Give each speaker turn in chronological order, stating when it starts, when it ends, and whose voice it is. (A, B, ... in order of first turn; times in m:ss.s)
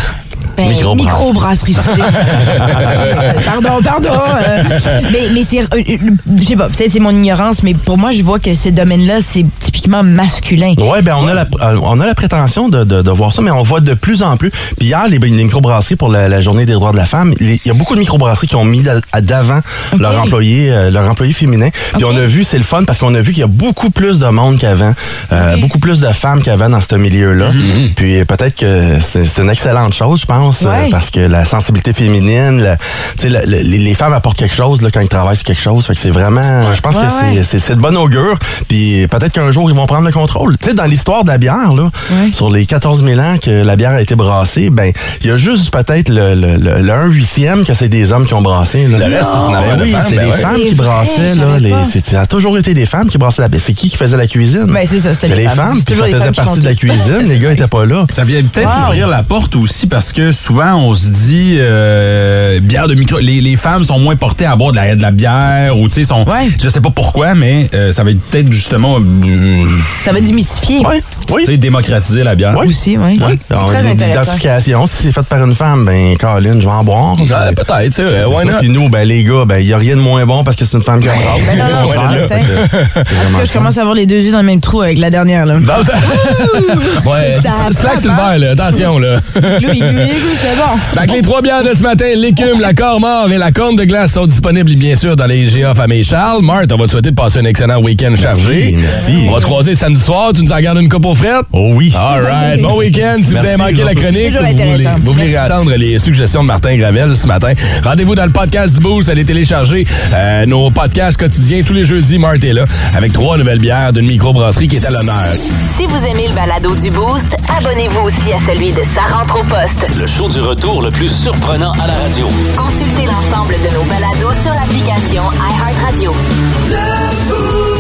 0:00.6-0:10.8 A
0:00.6-0:01.4 B
0:02.2-0:03.3 C
0:02.5-0:03.0 B
0:10.8-0:59.0 B
0:20.0-0:20.3 A
0:21.9-0:22.3 A
0:25.3-0:25.7 A
0:30.6-0:31.0 A
0:36.9-0:37.4 A
0:42.1-0:42.4 A
0:49.0-0:50.5 C
0:49.0-0:51.9 A
0:54.7-0:57.6 A
0:58.1-1:09.9 D
0:58.6-0:59.0 A
1:06.3-1:06.6 A
1:10.0-1:10.9 A
1:10.8-1:11.5 B
1:11.4-1:12.7 D
1:12.5-1:17.6 B
1:12.6-1:14.4 A
1:17.2-1:18.7 C
1:18.2-1:23.7 B
1:21.1-1:23.0 C
1:21.4-1:22.6 A
1:23.1-1:28.8 A
1:25.6-1:30.0 C
1:29.4-1:31.2 A
1:30.9-1:55.4 C
1:38.2-1:39.4 B
1:39.0-1:39.6 A
1:41.5-1:42.0 B
1:42.2-1:42.7 A
1:43.3-1:44.1 B
1:43.8-1:45.6 A
1:55.7-1:59.9 E
1:59.9-2:02.4 F
2:02.6-2:06.2 E